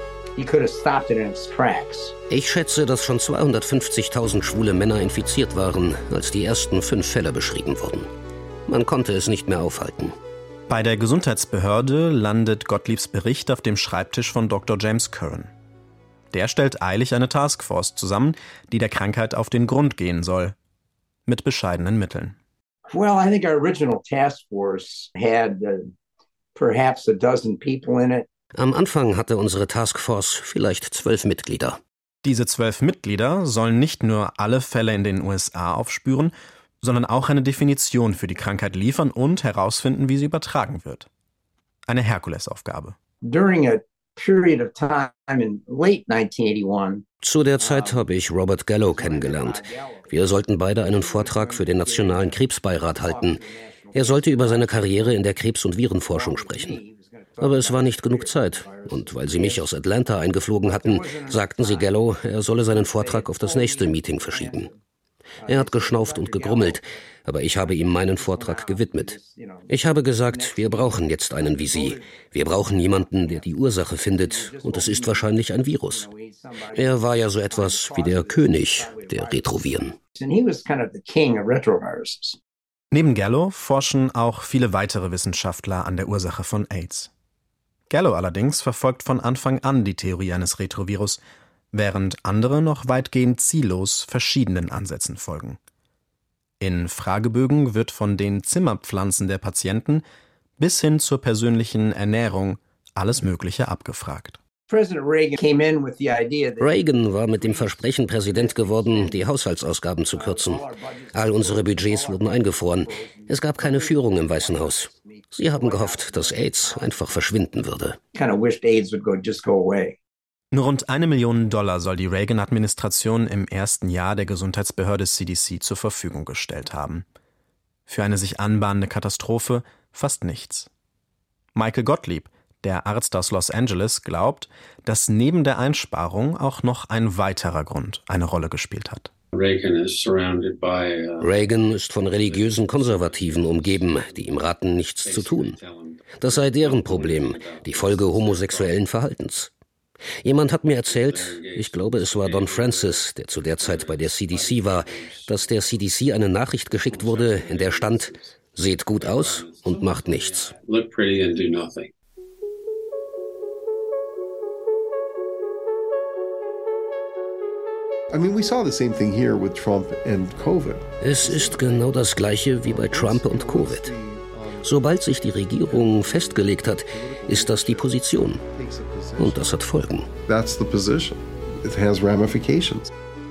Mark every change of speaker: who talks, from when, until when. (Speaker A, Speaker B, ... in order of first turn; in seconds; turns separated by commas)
Speaker A: 0.4-2.1, Speaker B: 2.3-8.1, Speaker B: 8.7-10.2, Speaker C: 10.7-15.5, Speaker C: 16.3-20.6, Speaker C: 21.3-22.4, Speaker A: 22.9-25.9, Speaker A: 26.6-28.3, Speaker B: 28.6-31.8, Speaker C: 32.2-41.1, Speaker C: 41.9-43.0, Speaker A: 43.2-47.0, Speaker B: 47.2-53.4, Speaker A: 47.6-48.0, Speaker A: 48.9-50.2, Speaker A: 50.8-52.4, Speaker A: 53.0-55.2, Speaker B: 54.0-56.8, Speaker A: 56.1-59.7, Speaker B: 57.4-64.7, Speaker A: 60.6-61.9, Speaker A: 62.7-64.8, Speaker A: 65.4-67.0, Speaker B: 65.5-69.2, Speaker A: 67.5-69.7, Speaker B: 69.7-76.1, Speaker A: 70.3-73.5, Speaker A: 74.1-75.3, Speaker A: 75.9-77.0, Speaker B: 76.7-80.0, Speaker A: 77.5-79.6, Speaker A: 80.2-82.4, Speaker C: 82.9-87.1, Speaker C: 87.9-91.2, Speaker C: 91.7-95.6, Speaker C: 96.6-100.0, Speaker C: 100.6-104.4, Speaker A: 104.7-109.2, Speaker B: 106.6-118.0, Speaker A: 110.1-117.4, Speaker A: 118.1-120.0, Speaker C: 120.5-127.0, Speaker C: 127.9-130.7, Speaker C: 131.6-139.1, Speaker D: 139.3-141.3, Speaker B: 141.2-145.6, Speaker D: 142.0-144.5, Speaker D: 145.0-148.8, Speaker B: 146.2-149.5, Speaker B: 150.2-160.5, Speaker D: 150.7-155.8, Speaker D: 156.8-158.3, Speaker D: 158.9-161.9, Speaker E: 168.1-174.7, Speaker B: 171.0-173.9, Speaker B: 174.6-178.4, Speaker E: 175.6-179.6, Speaker B: 179.2-180.1, Speaker E: 180.1-182.9